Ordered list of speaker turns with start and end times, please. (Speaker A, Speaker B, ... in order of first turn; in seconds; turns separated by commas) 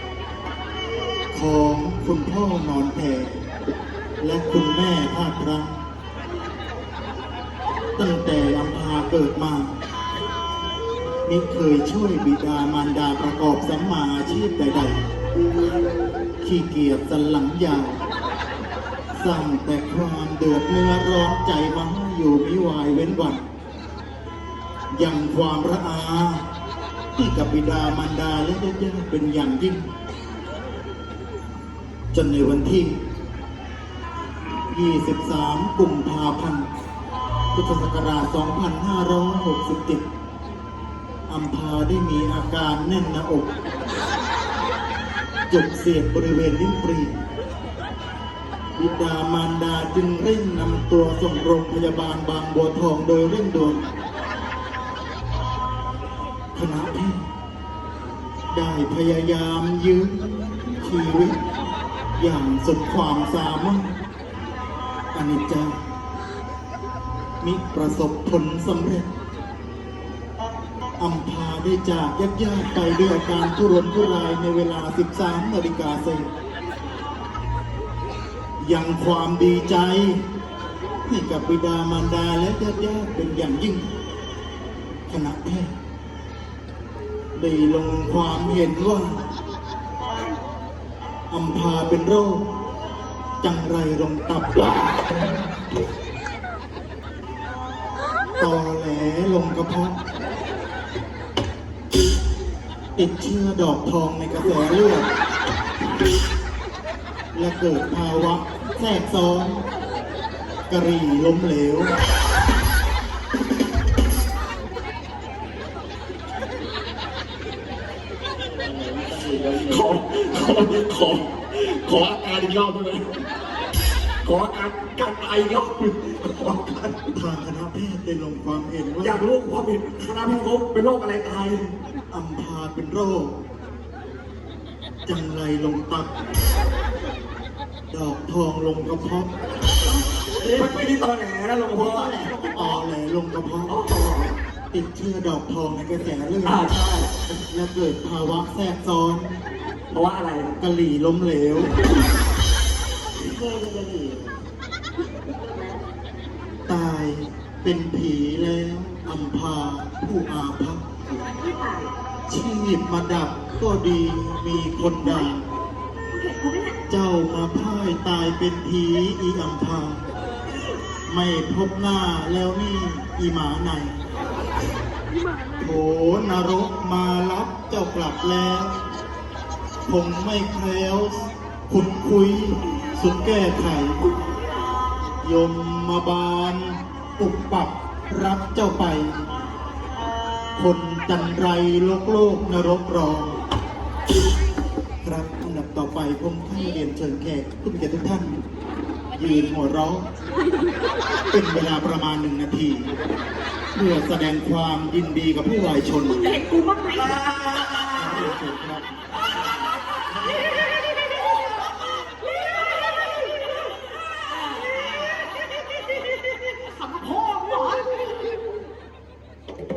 Speaker A: 1.3-3.4, Speaker A: 4.2-5.8, Speaker A: 8.0-9.7, Speaker A: 11.2-15.0, Speaker A: 16.4-18.0, Speaker A: 19.2-23.4, Speaker A: 24.9-26.5, Speaker A: 27.2-29.9, Speaker A: 32.1-33.0, Speaker A: 34.7-36.7, Speaker A: 37.5-40.0, Speaker A: 41.3-43.5, Speaker A: 45.5-47.1, Speaker A: 48.8-53.8, Speaker A: 56.5-57.2, Speaker A: 58.5-61.4, Speaker A: 62.2-63.9, Speaker A: 65.1-65.7, Speaker A: 67.4-69.1, Speaker A: 71.0-76.3, Speaker A: 78.6-80.2, Speaker A: 81.0-83.8, Speaker A: 85.1-85.7, Speaker A: 87.3-89.3, Speaker A: 91.3-92.4, Speaker A: 93.4-94.8, Speaker A: 98.4-100.0, Speaker A: 103.0-105.1, Speaker A: 107.3-109.7, Speaker A: 110.7-111.9, Speaker B: 119.0-123.2, Speaker B: 124.2-127.0, Speaker A: 127.0-129.2, Speaker B: 129.0-131.7, Speaker A: 132.1-133.4, Speaker A: 135.1-136.1, Speaker A: 137.9-139.3, Speaker B: 140.4-142.8, Speaker A: 141.8-143.8, Speaker B: 143.7-144.3, Speaker A: 144.7-149.4, Speaker B: 146.4-147.1, Speaker B: 149.9-150.5, Speaker A: 150.6-151.8, Speaker B: 153.2-154.3, Speaker C: 155.4-155.8, Speaker A: 156.7-160.8, Speaker C: 161.2-161.9, Speaker A: 162.3-165.4, Speaker C: 166.1-166.8, Speaker A: 166.9-170.0, Speaker A: 171.1-173.9, Speaker A: 175.6-178.7, Speaker A: 179.9-184.1, Speaker A: 185.2-189.1, Speaker A: 190.6-193.4, Speaker A: 195.0-198.4, Speaker A: 199.2-200.1, Speaker A: 201.3-202.9, Speaker A: 203.8-206.4, Speaker C: 206.2-207.2, Speaker B: 207.2-208.2, Speaker A: 207.9-208.9, Speaker C: 216.7-217.9